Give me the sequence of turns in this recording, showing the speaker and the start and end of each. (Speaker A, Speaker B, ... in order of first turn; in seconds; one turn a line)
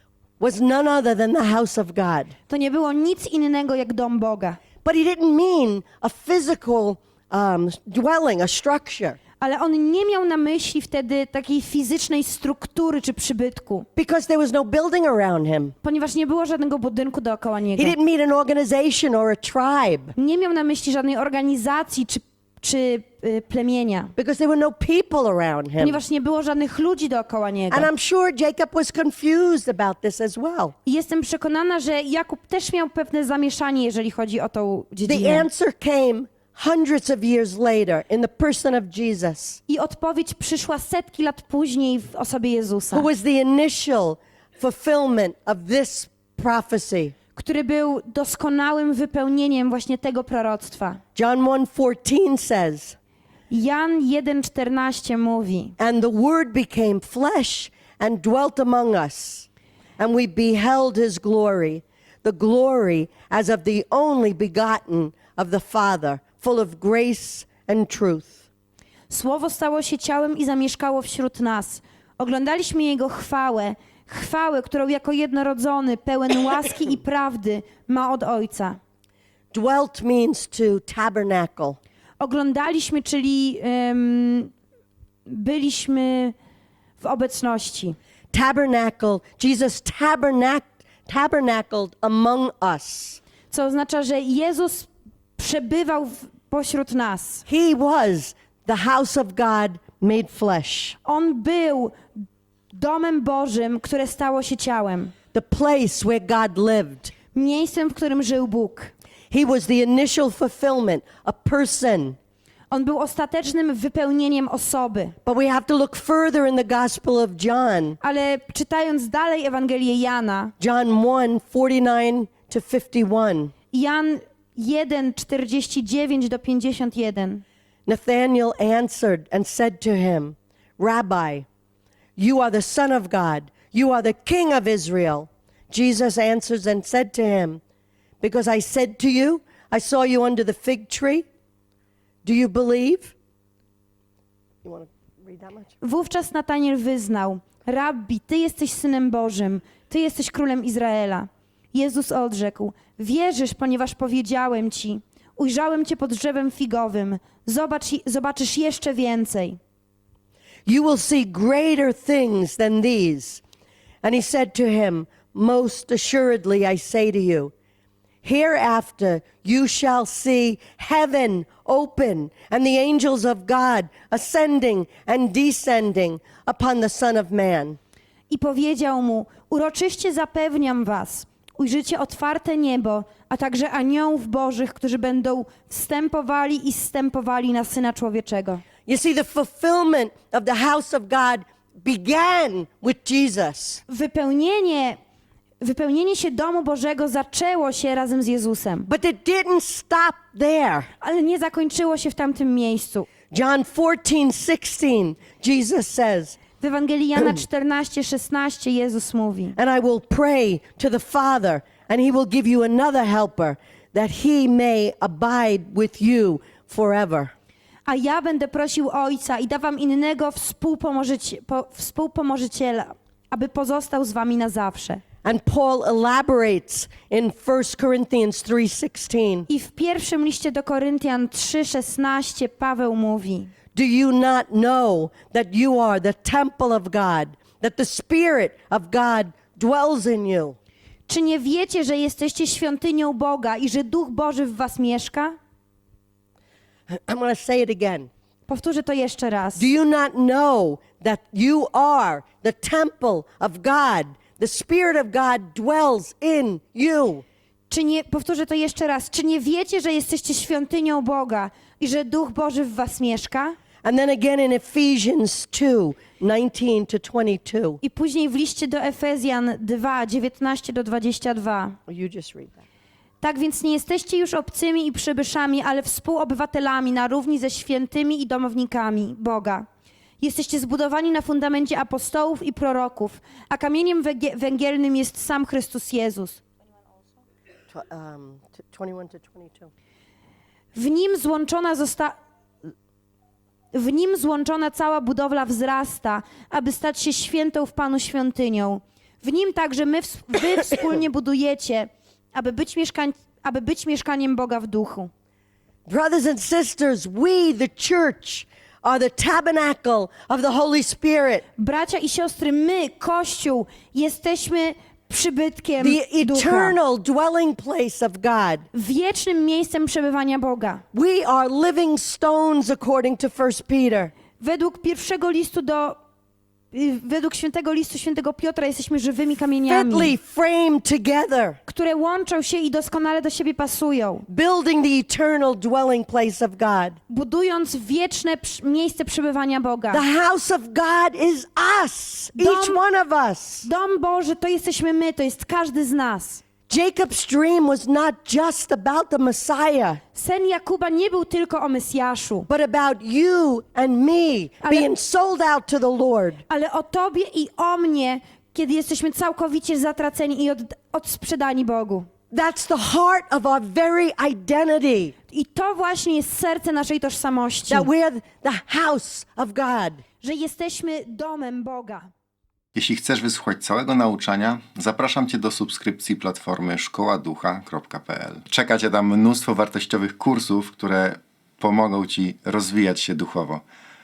Speaker A: 0.4-2.3
Speaker B: 2.5-4.6
Speaker A: 4.8-9.2
Speaker B: 9.4-13.8
Speaker A: 13.9-15.7
Speaker B: 15.8-17.9
Speaker A: 17.8-20.1
Speaker B: 20.1-24.1
Speaker A: 24.2-26.0
Speaker B: 25.8-27.9
Speaker A: 27.7-30.7
Speaker B: 30.8-35.5
Speaker A: 35.0-39.6
Speaker B: 39.7-43.1
Speaker A: 42.9-47.1
Speaker B: 47.3-51.0
Speaker A: 51.1-53.0
Speaker B: 53.5-55.7
Speaker A: 55.8-59.5
Speaker A: 60.0-68.4
Speaker B: 69.1-78.8
Speaker A: 79.5-81.8
Speaker B: 82.2-84.5
Speaker B: 85.2-86.3
Speaker B: 87.0-88.0
Speaker A: 88.3-93.2
Speaker B: 93.5-97.4
Speaker A: 97.5-101.0
Speaker B: 101.0-105.1
Speaker A: 105.3-107.1
Speaker B: 107.3-108.9
Speaker A: 109.3-112.2
Speaker B: 112.7-115.2
Speaker A: 115.2-118.0
Speaker B: 118.0-120.5
Speaker A: 120.6-123.5
Speaker B: 123.7-127.4
Speaker A: 127.9-131.4
Speaker A: 132.2-137.6
Speaker A: 138.2-141.2
Speaker A: 142.2-143.1
Speaker A: 144.6-145.7
Speaker B: 145.8-159.6
Speaker A: 160.7-163.4
Speaker A: 164.0-167.5
Speaker A: 168.2-177.8
Speaker B: 178.3-188.6
Speaker A: 188.8-193.8
Speaker B: 193.9-195.0
Speaker B: 195.6-198.9
Speaker A: 198.9-200.9
Speaker B: 201.0-203.1
Speaker A: 203.3-206.4
Speaker B: 206.6-209.5
Speaker A: 209.6-217.3
Speaker B: 217.8-225.0
Speaker A: 225.2-229.5
Speaker B: 229.5-233.5
Speaker A: 233.7-240.6
Speaker B: 241.1-245.3
Speaker A: 246.9-248.1
Speaker B: 248.5-249.7
Speaker A: 249.5-257.2
Speaker B: 257.7-263.6
Speaker A: 263.8-267.8
Speaker B: 267.8-271.8
Speaker A: 271.9-272.6
Speaker B: 273.2-279.6
Speaker B: 280.2-286.4
Speaker A: 287.7-289.7
Speaker B: 290.7-292.1
Speaker B: 293.7-305.1
Speaker A: 305.9-311.4
Speaker B: 311.6-316.8
Speaker A: 315.8-318.6
Speaker B: 318.7-320.8
Speaker A: 320.9-324.1
Speaker B: 324.4-326.0
Speaker B: 326.7-330.1
Speaker A: 329.7-331.6
Speaker B: 331.7-334.2
Speaker A: 334.3-337.0
Speaker B: 337.1-340.0
Speaker A: 339.9-343.7
Speaker B: 342.3-342.8
Speaker B: 343.6-346.4
Speaker A: 346.7-350.0
Speaker B: 350.1-352.5
Speaker A: 352.5-356.4
Speaker B: 354.6-354.9
Speaker B: 356.5-362.1
Speaker A: 362.3-365.1
Speaker B: 365.3-367.9
Speaker A: 367.7-370.0
Speaker B: 370.2-372.1
Speaker C: 372.7-383.6